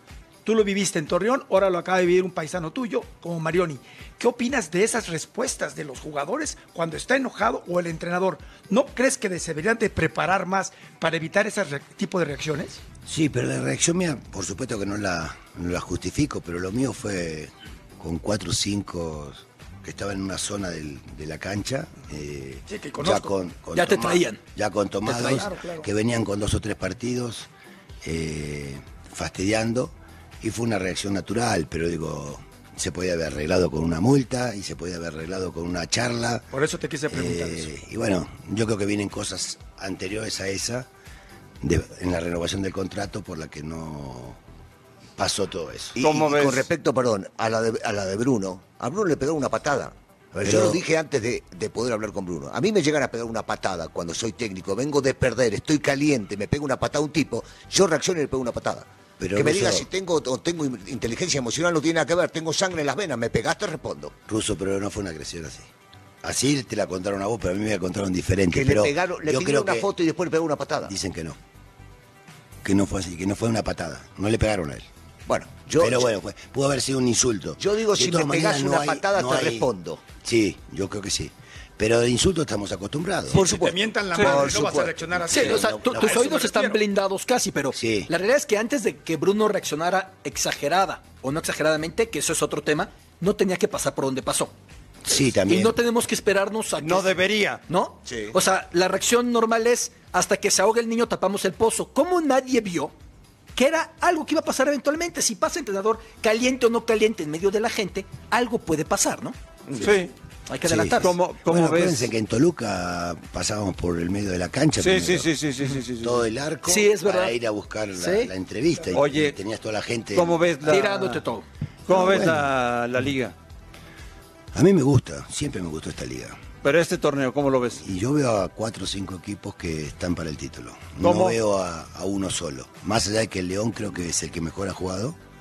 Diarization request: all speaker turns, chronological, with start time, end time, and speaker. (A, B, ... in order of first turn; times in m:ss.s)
0:00.4-0:12.8 A
0:13.0-0:27.5 B
0:22.7-0:23.3 A
0:23.7-0:24.4 C
0:25.0-0:25.5 C
0:25.2-0:25.9 A
0:28.0-0:36.5 B
0:36.5-0:37.7 A
0:37.1-0:40.9 B
0:41.6-0:44.4 B
0:45.2-0:46.0 B
0:46.0-1:04.1 D
0:46.0-0:46.7 E
0:50.4-0:50.8 B
0:59.2-0:59.9 B
1:04.3-1:05.7 B
1:06.2-1:09.9 B
1:08.5-1:10.9 D
1:10.8-1:11.4 B
1:12.6-1:14.9 B
1:15.3-1:16.1 D
1:15.8-1:19.7 B
1:17.6-1:20.0 D
1:20.2-1:23.4 B
1:23.3-1:25.4 D
1:23.3-1:26.8 A
1:25.3-1:34.5 C
1:25.4-1:26.2 B
1:27.7-1:28.1 B
1:35.0-1:35.8 B
1:35.3-1:42.9 C
1:36.8-1:37.6 E
1:38.1-1:38.3 D
1:43.5-1:49.4 C
1:49.7-1:50.1 E
1:50.5-1:51.2 C
1:50.6-1:55.3 B
1:51.0-1:52.1 E
1:54.8-1:56.2 E
1:56.0-2:00.8 B
1:56.6-1:57.3 C
1:57.9-1:58.3 C
1:58.9-1:59.4 E
2:00.1-2:01.2 E
2:00.6-2:01.4 C
2:01.9-2:03.3 E
2:01.9-2:02.5 B
2:04.5-2:06.4 B
2:06.6-2:07.8 E
2:07.8-2:15.2 B
2:11.0-2:11.4 E